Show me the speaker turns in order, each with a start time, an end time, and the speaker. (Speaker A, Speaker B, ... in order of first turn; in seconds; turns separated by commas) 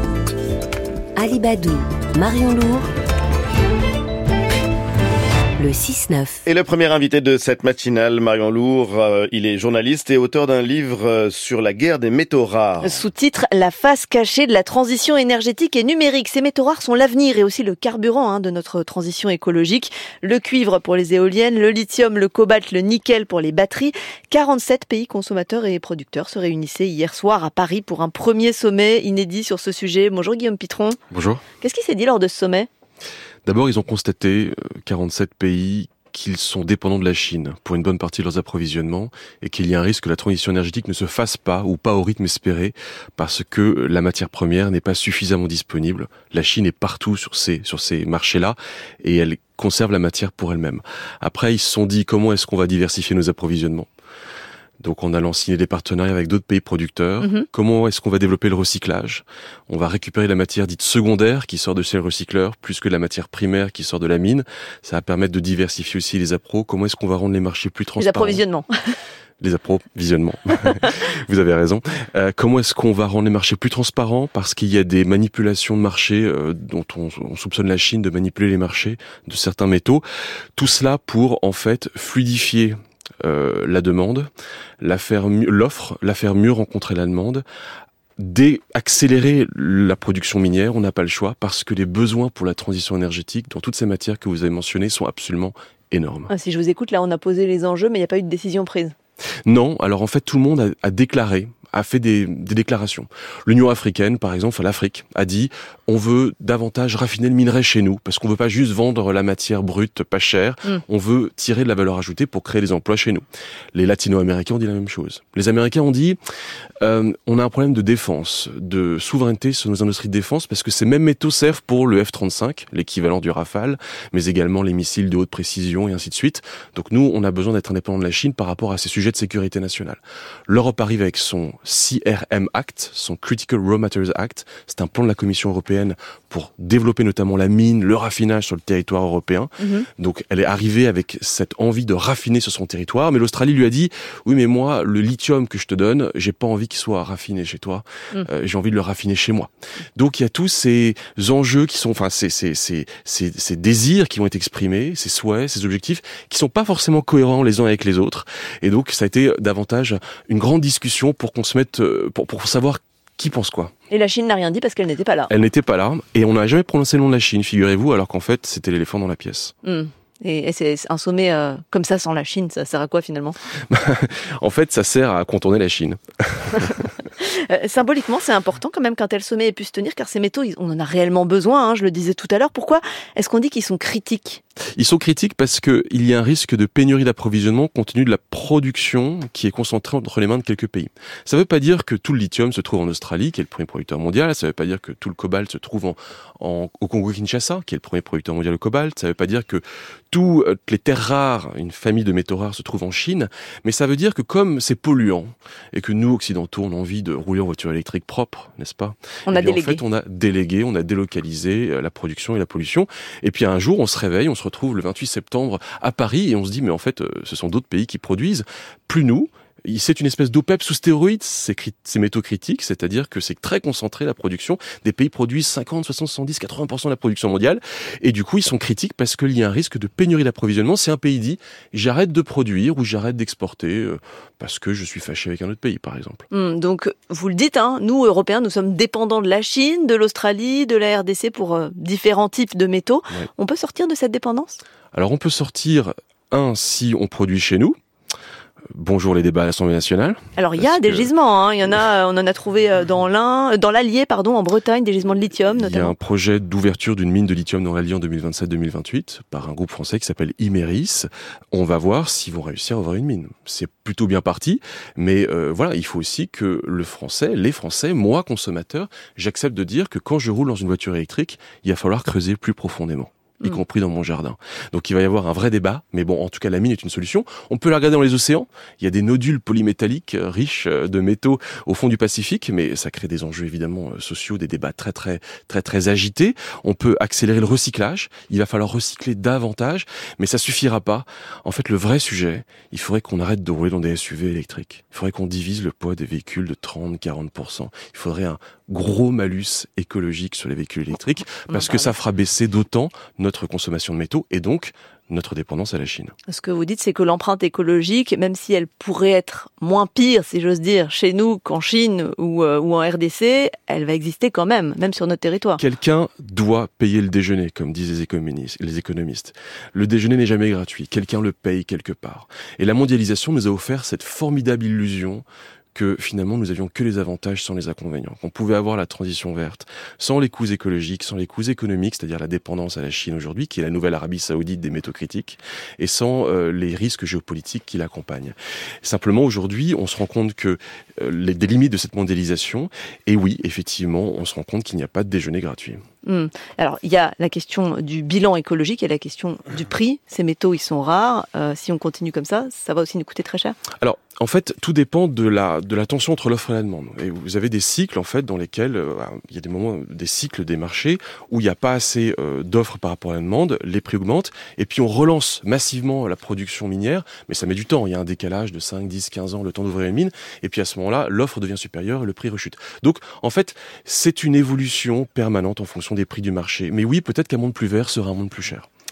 Speaker A: 1.1-2.9, Speaker A: 5.6-6.4, Speaker B: 6.5-13.0, Speaker C: 12.8-31.0, Speaker D: 31.1-31.4, Speaker C: 31.6-32.7, Speaker D: 33.5-53.9, Speaker D: 54.8-68.4, Speaker C: 57.2-57.5, Speaker C: 68.0-68.7, Speaker D: 69.4-80.0, Speaker D: 80.6-84.3, Speaker D: 84.8-87.4, Speaker D: 88.2-96.3, Speaker C: 96.3-98.9, Speaker D: 99.5-116.2, Speaker D: 116.8-163.7, Speaker C: 139.6-139.8, Speaker C: 163.9-165.3, Speaker D: 165.3-169.5, Speaker C: 169.6-173.4, Speaker D: 173.7-176.8, Speaker C: 177.1-184.4, Speaker D: 184.8-236.2, Speaker C: 209.2-209.8, Speaker C: 236.3-244.6, Speaker D: 244.9-247.8, Speaker D: 248.7-251.1, Speaker C: 250.3-255.9, Speaker D: 255.6-306.1, Speaker C: 301.5-301.9, Speaker C: 306.3-315.6, Speaker D: 315.6-345.8, Speaker C: 346.0-353.6, Speaker D: 353.8-378.7